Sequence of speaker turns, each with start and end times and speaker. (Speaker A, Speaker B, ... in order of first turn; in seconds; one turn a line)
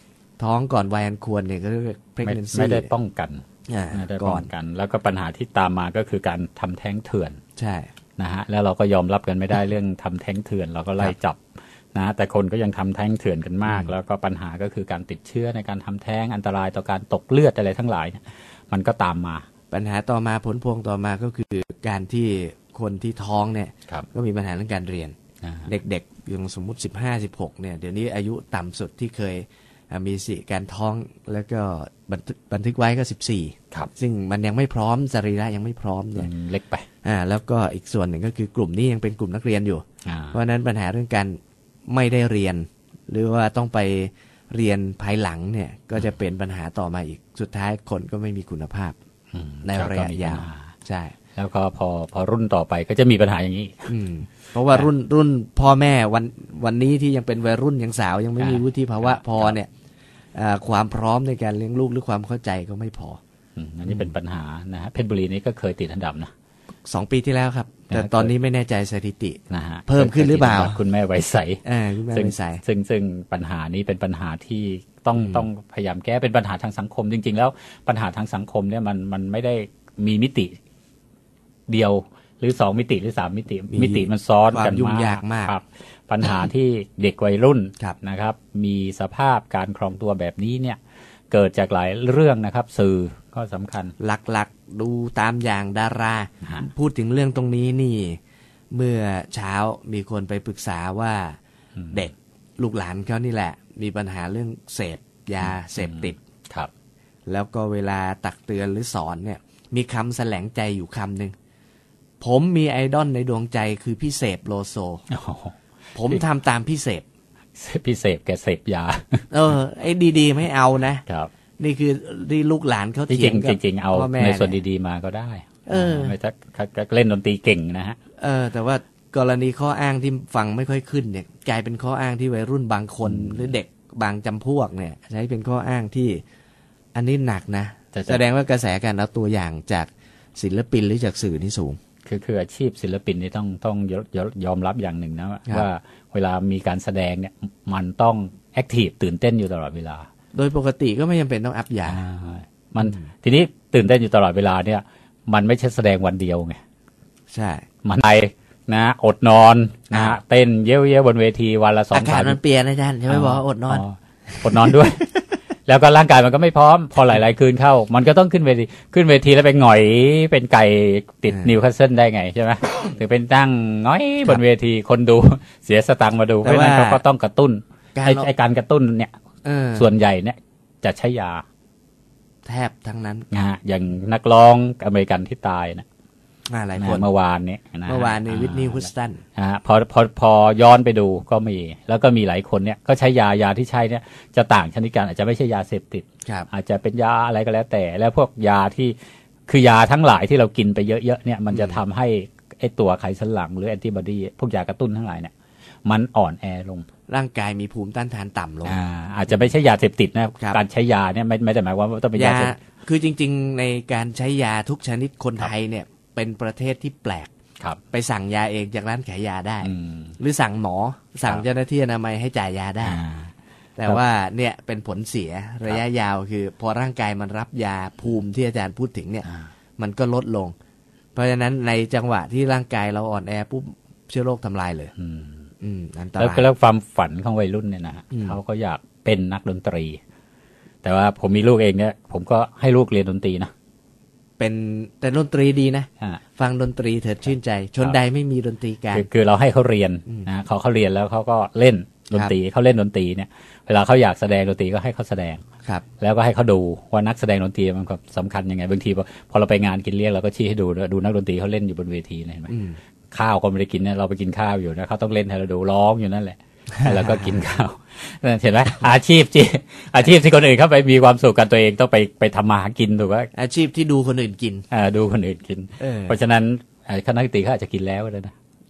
Speaker A: 0.4-2.9
Speaker B: 2.2-7.4
Speaker A: 3.7-4.5
Speaker A: 7.6-7.9
Speaker B: 8.2-19.4
Speaker A: 13.7-13.9
Speaker A: 19.7-25.1
Speaker B: 25.4-25.7
Speaker A: 25.6-36.3
Speaker B: 36.1-36.9
Speaker A: 37.0-48.9
Speaker B: 40.0-40.4
Speaker B: 49.3-50.6
Speaker A: 49.6-51.1
Speaker B: 51.4-53.9
Speaker A: 53.9-59.7
Speaker B: 58.4-59.5
Speaker A: 60.3-63.2
Speaker B: 63.6-66.3
Speaker A: 66.8-70.8
Speaker B: 67.9-68.3
Speaker B: 69.5-71.6
Speaker A: 71.6-72.6
Speaker B: 72.1-80.6
Speaker A: 75.2-75.5
Speaker B: 81.7-90.8
Speaker A: 83.7-85.5
Speaker B: 91.3-93.9
Speaker A: 94.0-98.2
Speaker A: 98.7-101.4
Speaker B: 101.8-102.1
Speaker A: 101.9-106.2
Speaker B: 105.4-106.7
Speaker A: 107.3-111.3
Speaker A: 112.2-115.0
Speaker B: 115.1-115.5
Speaker A: 115.9-117.0
Speaker B: 117.6-119.3
Speaker A: 119.3-121.0
Speaker A: 121.6-124.6
Speaker B: 123.1-128.0
Speaker A: 125.7-126.1
Speaker A: 128.2-136.2
Speaker B: 133.0-133.5
Speaker A: 136.9-141.8
Speaker B: 137.9-138.2
Speaker B: 142.0-150.1
Speaker A: 150.3-152.0
Speaker B: 151.9-156.6
Speaker A: 152.8-153.1
Speaker A: 157.3-157.7
Speaker B: 157.8-162.4
Speaker A: 159.9-160.2
Speaker A: 161.9-164.7
Speaker B: 163.1-165.1
Speaker B: 165.7-179.1
Speaker A: 176.4-177.0
Speaker A: 177.9-178.3
Speaker A: 179.4-179.9
Speaker B: 179.8-181.4
Speaker A: 182.4-183.3
Speaker B: 183.3-185.8
Speaker A: 186.5-187.1
Speaker B: 186.8-198.9
Speaker A: 187.9-189.2
Speaker A: 196.2-196.5
Speaker B: 199.5-205.3
Speaker B: 205.8-206.8
Speaker A: 207.1-208.8
Speaker B: 208.6-212.5
Speaker A: 212.1-217.3
Speaker A: 217.9-223.0
Speaker B: 219.6-220.2
Speaker B: 222.8-223.3
Speaker A: 223.8-230.5
Speaker B: 229.2-229.5
Speaker A: 231.1-234.9
Speaker B: 235.0-235.4
Speaker A: 235.6-236.5
Speaker B: 236.2-240.0
Speaker B: 240.8-243.5
Speaker A: 244.4-249.1
Speaker B: 248.9-255.4
Speaker A: 252.1-252.3
Speaker B: 256.0-262.5
Speaker A: 262.5-262.8
Speaker B: 263.1-273.3
Speaker A: 273.3-274.6
Speaker B: 274.7-278.3
Speaker A: 275.8-276.2